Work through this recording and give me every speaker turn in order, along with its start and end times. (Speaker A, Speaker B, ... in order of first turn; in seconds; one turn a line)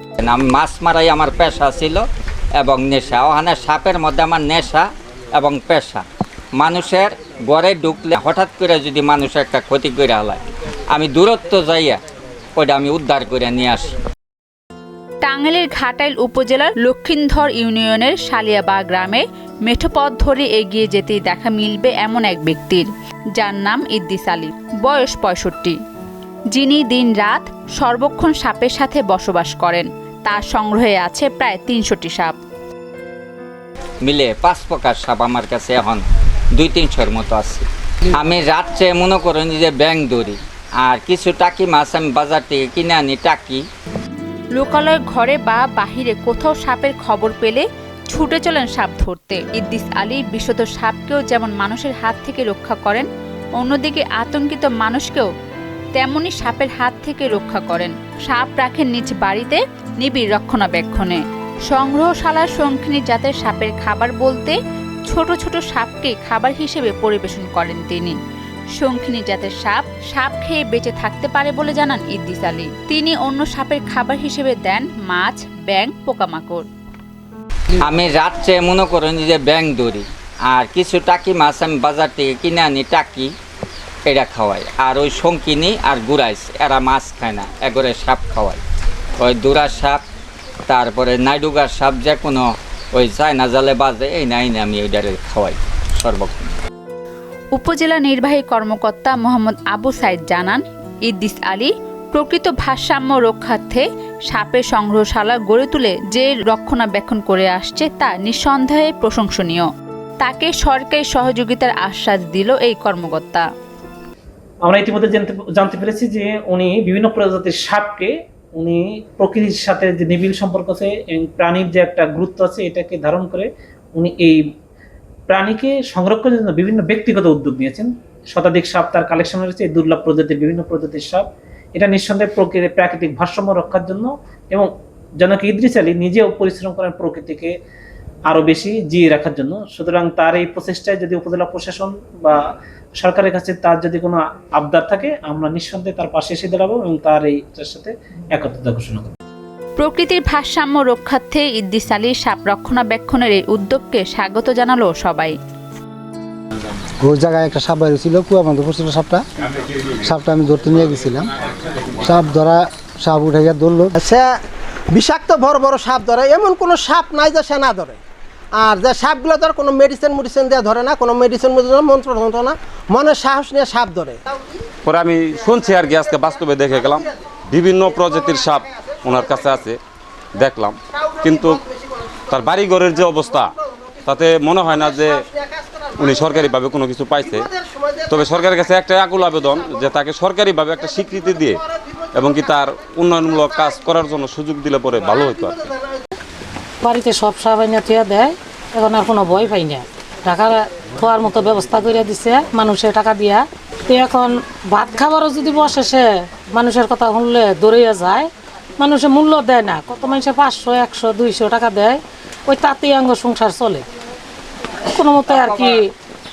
Speaker A: 0.2-2.0
Speaker A: 2.6-6.0
Speaker A: 6.5-12.0
Speaker A: 12.6-14.0
Speaker B: 15.2-25.8
Speaker B: 26.5-32.3
Speaker A: 34.0-36.0
Speaker A: 36.5-43.6
Speaker B: 44.5-53.1
Speaker B: 53.6-55.3
Speaker B: 55.9-68.2
Speaker B: 68.8-76.7
Speaker A: 77.8-83.3
Speaker A: 84.1-88.6
Speaker A: 89.2-90.0
Speaker A: 90.7-96.5
Speaker B: 97.5-109.7
Speaker B: 110.2-113.5
Speaker C: 114.7-124.4
Speaker C: 125.3-137.5
Speaker C: 138.3-142.4
Speaker C: 143.0-149.1
Speaker B: 149.8-155.3
Speaker D: 157.0-159.2
Speaker D: 159.8-161.3
Speaker D: 161.9-164.0
Speaker E: 164.0-164.4
Speaker E: 164.9-168.0
Speaker E: 168.5-174.6
Speaker F: 174.8-179.8
Speaker E: 177.9-179.4
Speaker F: 180.3-181.6
Speaker E: 180.9-182.4
Speaker F: 182.3-185.2
Speaker E: 183.4-183.9
Speaker E: 184.7-186.5
Speaker F: 186.0-187.5
Speaker E: 187.2-188.2
Speaker F: 188.1-191.6
Speaker E: 191.0-192.0
Speaker F: 192.1-195.7
Speaker E: 195.6-196.0
Speaker G: 196.8-213.8
Speaker G: 214.8-215.9
Speaker A: 215.2-215.8